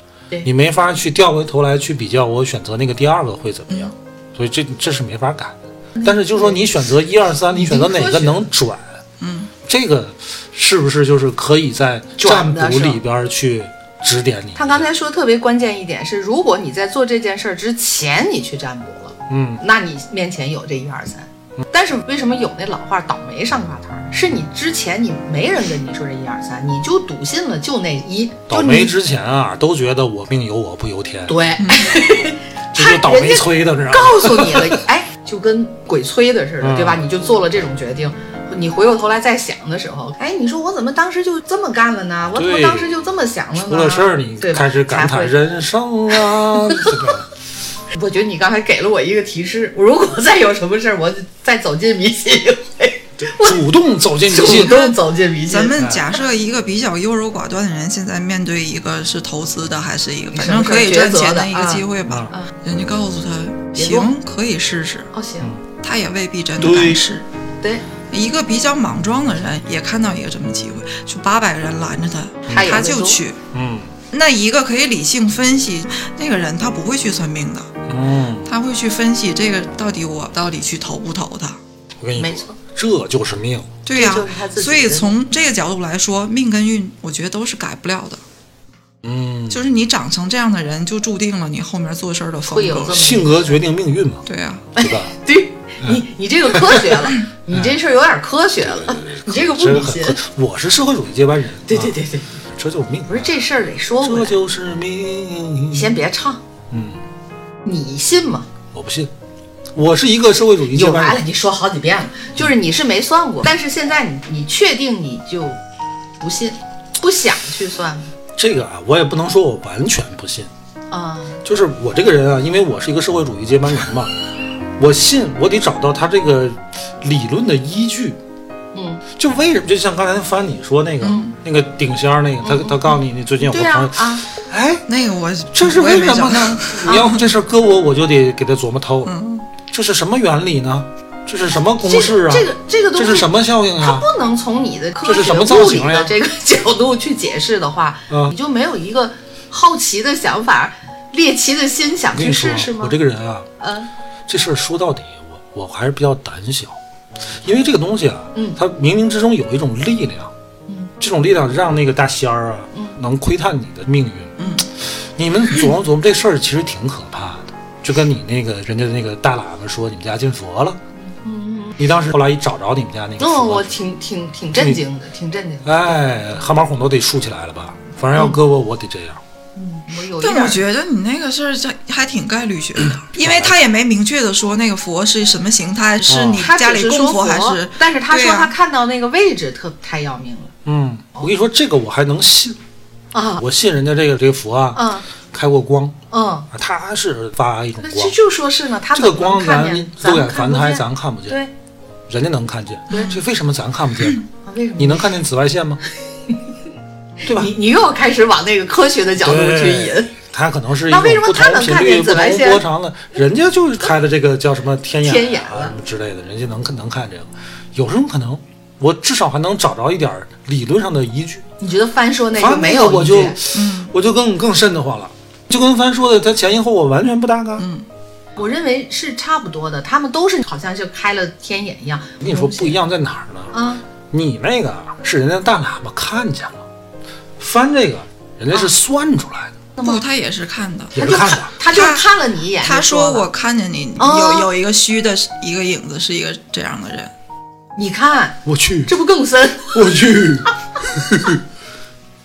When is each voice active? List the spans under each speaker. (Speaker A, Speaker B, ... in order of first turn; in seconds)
Speaker A: 0.4-9.0, 9.6-14.9, 19.3-19.6, 28.5-31.4, 32.7-34.8, 36.6-37.0, 42.3-42.9, 43.5-47.3, 53.2-54.9, 55.7-56.1, 62.1-62.3, 66.6-67.0, 73.5-73.9, 77.9-78.5, 82.0-83.8, 89.0-89.7, 92.9-94.2, 94.8-95.1, 95.8-97.8, 98.6-102.0, 102.5-103.4, 104.0-106.0, 106.7-107.0, 108.7-109.1, 109.7-111.2, 118.3-120.5, 121.4-124.1, 124.8-128.2, 129.2-134.8, 135.5-139.1, 139.7-144.1, 145.0-146.1, 148.1-148.3, 152.1-153.5, 154.3-156.8, 157.4-160.3, 161.0-170.8, 171.8-173.7, 174.5-174.8, 175.6-179.2, 183.1-183.6, 186.1-186.4, 190.6-192.6, 193.4-196.0, 196.5-198.2, 198.9-201.4, 202.1-204.2, 204.8-205.8, 207.2-207.5, 209.2-221.4, 222.3-227.7, 232.2-233.5, 234.1-236.6, 237.4-239.5, 240.9-241.5, 248.4-248.9, 249.7-251.4
Speaker B: 6.0-6.7, 7.5-8.5, 12.2-13.0, 14.5-28.9, 31.3-45.4, 46.2-47.1, 47.9-53.6, 54.2-55.8, 60.3-62.5, 63.7-64.1, 65.1-65.5, 72.5-73.2, 82.2-82.5, 83.9-85.1, 92.5-93.6, 94.8-100.2, 101.7-102.3, 103.1-104.4, 105.7-106.4, 107.6-108.5, 110.7-115.6, 116.2-118.1, 120.9-121.4, 128.7-129.0, 132.4-134.3, 136.8-137.1, 141.8-152.9, 153.6-153.9, 160.7-160.9, 162.7-163.0, 170.9-171.8, 173.2-176.0, 179.6-180.6, 186.4-190.5, 193.1-193.4, 194.7-195.1, 196.1-196.5, 197.8-201.5, 202.9-203.2, 204.4-205.1, 207.2-210.1, 210.9-212.6, 215.0-215.7, 221.6-223.4, 228.3-232.8, 233.5-233.8, 239.8-240.0, 241.0-243.2, 244.0-244.5, 247.8-249.8
Speaker C: 9.2-9.5, 31.6-31.9, 54.5-54.9, 55.5-65.1, 65.8-67.2, 68.1-73.4, 74.1-77.7, 78.4-81.6, 83.8-88.2, 89.5-93.0, 94.3-94.7, 131.0-131.3, 134.9-137.2, 139.0-139.4, 164.4-164.7, 180.2-188.5, 202.9-203.2, 223.5-223.9, 227.6-227.8, 239.8-241.1, 241.6-242.1, 242.6-247.1